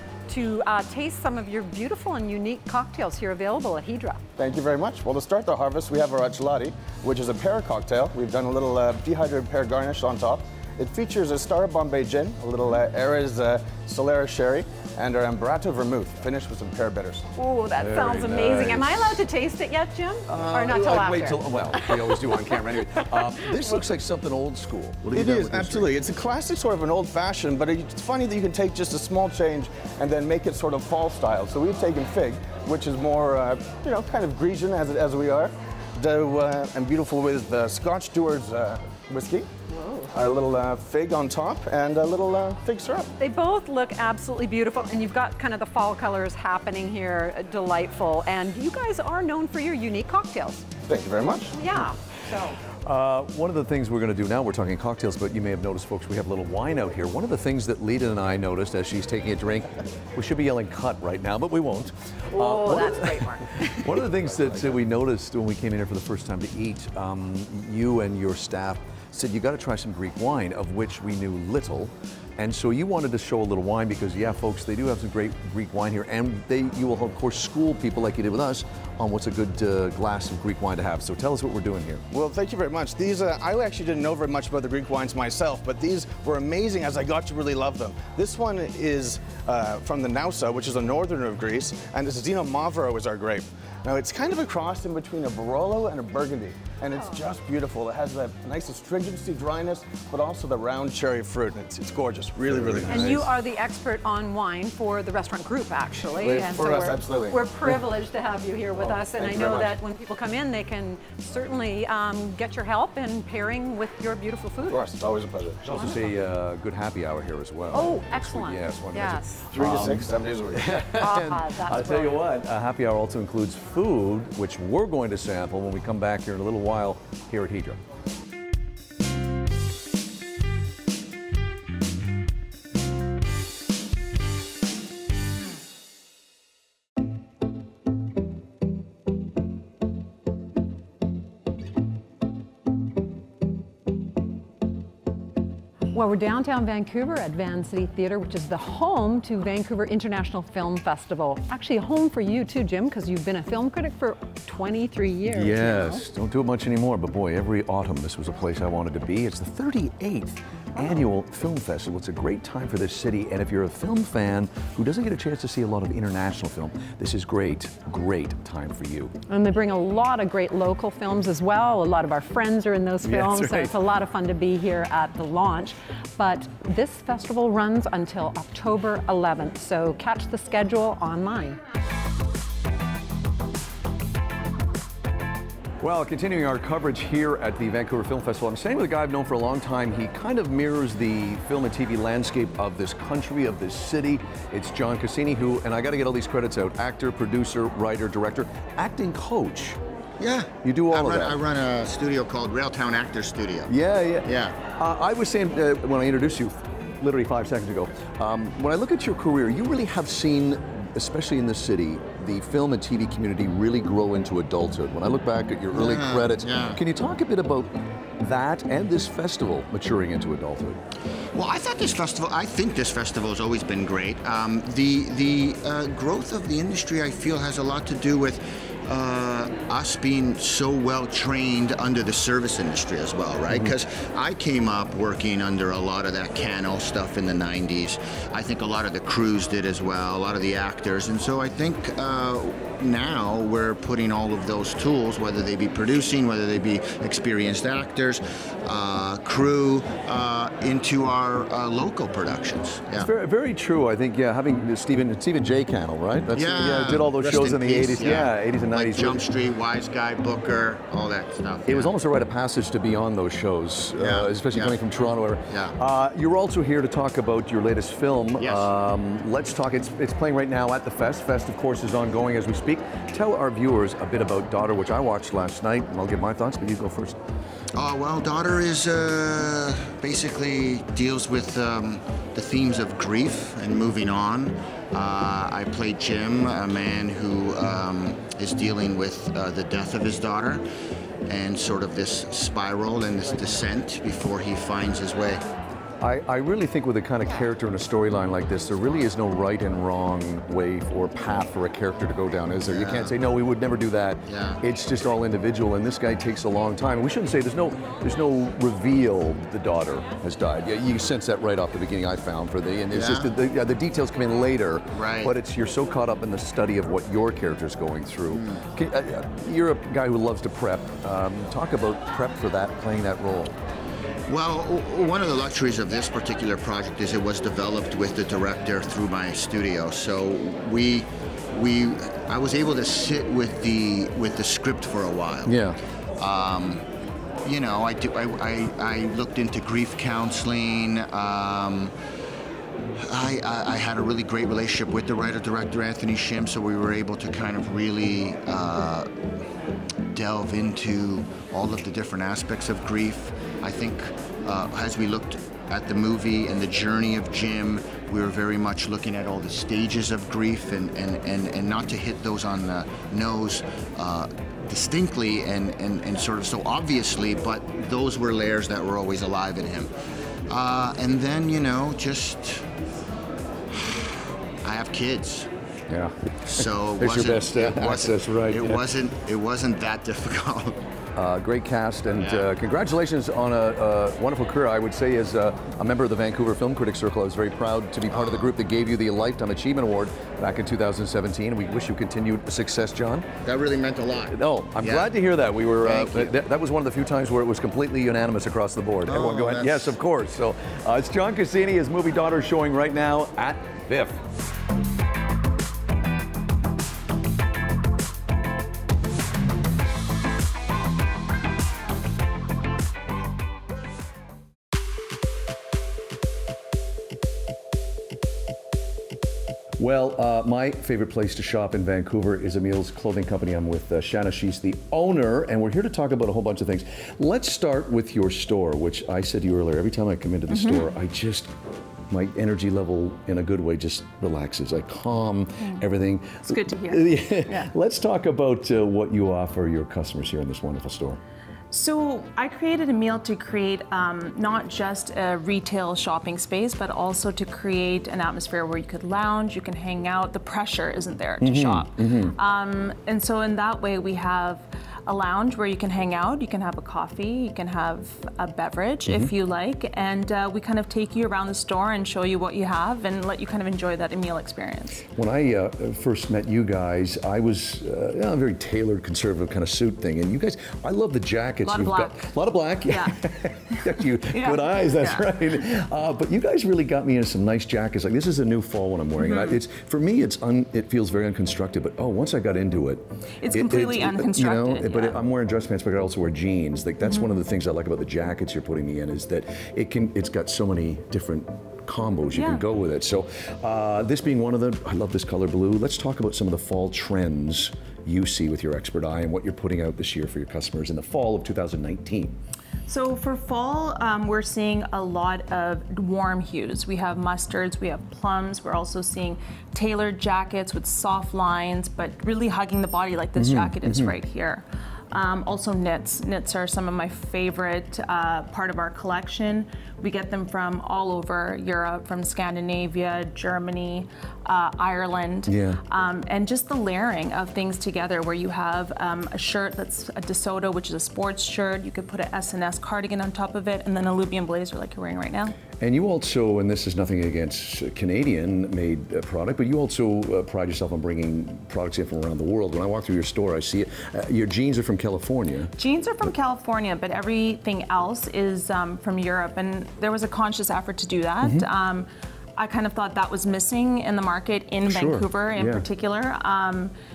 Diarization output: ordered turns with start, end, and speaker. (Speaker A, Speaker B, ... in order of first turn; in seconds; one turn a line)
Speaker A: 0.3-4.2
Speaker B: 4.4-17.3
Speaker A: 17.4-22.6
Speaker C: 17.8-19.2
Speaker C: 20.3-25.9
Speaker A: 23.1-23.6
Speaker B: 25.1-39.5
Speaker A: 39.7-40.1
Speaker B: 40.1-43.1
Speaker A: 43.2-50.7
Speaker B: 50.9-51.5
Speaker A: 51.5-52.6
Speaker C: 52.9-82.0
Speaker A: 62.3-64.1
Speaker B: 82.1-103.3
Speaker C: 102.5-103.0
Speaker A: 102.9-114.8
Speaker B: 106.1-107.5
Speaker B: 108.8-109.8
Speaker B: 114.7-115.8
Speaker C: 115.6-127.8
Speaker A: 115.7-116.0
Speaker A: 117.7-119.5
Speaker B: 119.5-120.8
Speaker A: 120.9-122.2
Speaker A: 145.9-156.1
Speaker C: 155.3-169.1
Speaker A: 169.3-181.6
Speaker C: 173.0-173.8
Speaker C: 185.8-199.8
Speaker D: 200.2-204.6
Speaker C: 200.6-201.4
Speaker C: 203.7-220.8
Speaker D: 215.7-216.8
Speaker D: 221.3-253.1
Speaker C: 252.9-259.3
Speaker D: 256.3-261.9
Speaker C: 261.7-277.2
Speaker D: 264.0-264.8
Speaker D: 265.5-265.8
Speaker D: 268.4-268.7
Speaker D: 277.8-290.6
Speaker D: 291.3-295.4
Speaker C: 296.0-323.6
Speaker D: 302.7-303.1
Speaker D: 304.3-304.6
Speaker D: 312.9-313.3
Speaker D: 314.9-315.4
Speaker D: 318.3-318.6
Speaker D: 324.3-335.6
Speaker C: 335.4-335.8
Speaker D: 336.2-336.9
Speaker D: 337.4-341.9
Speaker D: 343.0-349.1
Speaker D: 350.1-369.9
Speaker D: 370.5-372.7
Speaker D: 374.6-375.5
Speaker C: 375.9-378.9
Speaker D: 376.4-380.8
Speaker C: 381.2-393.3
Speaker D: 382.2-382.5
Speaker D: 388.1-388.5
Speaker D: 393.4-395.1
Speaker C: 394.3-404.2
Speaker D: 395.8-396.4
Speaker D: 399.1-399.9
Speaker C: 419.8-431.5
Speaker E: 430.5-430.9
Speaker C: 432.1-441.2
Speaker E: 436.5-437.7
Speaker E: 441.7-465.1
Speaker C: 451.4-452.4
Speaker C: 459.1-459.3
Speaker C: 465.2-502.4
Speaker E: 471.6-472.3
Speaker E: 472.9-473.2
Speaker E: 473.8-475.3
Speaker E: 479.2-479.6
Speaker E: 483.4-485.2
Speaker E: 492.3-492.6
Speaker E: 502.9-535.6
Speaker C: 513.4-514.2
Speaker C: 525.5-525.8
Speaker C: 535.8-545.7
Speaker E: 545.8-556.9
Speaker C: 551.4-551.7
Speaker C: 554.9-555.9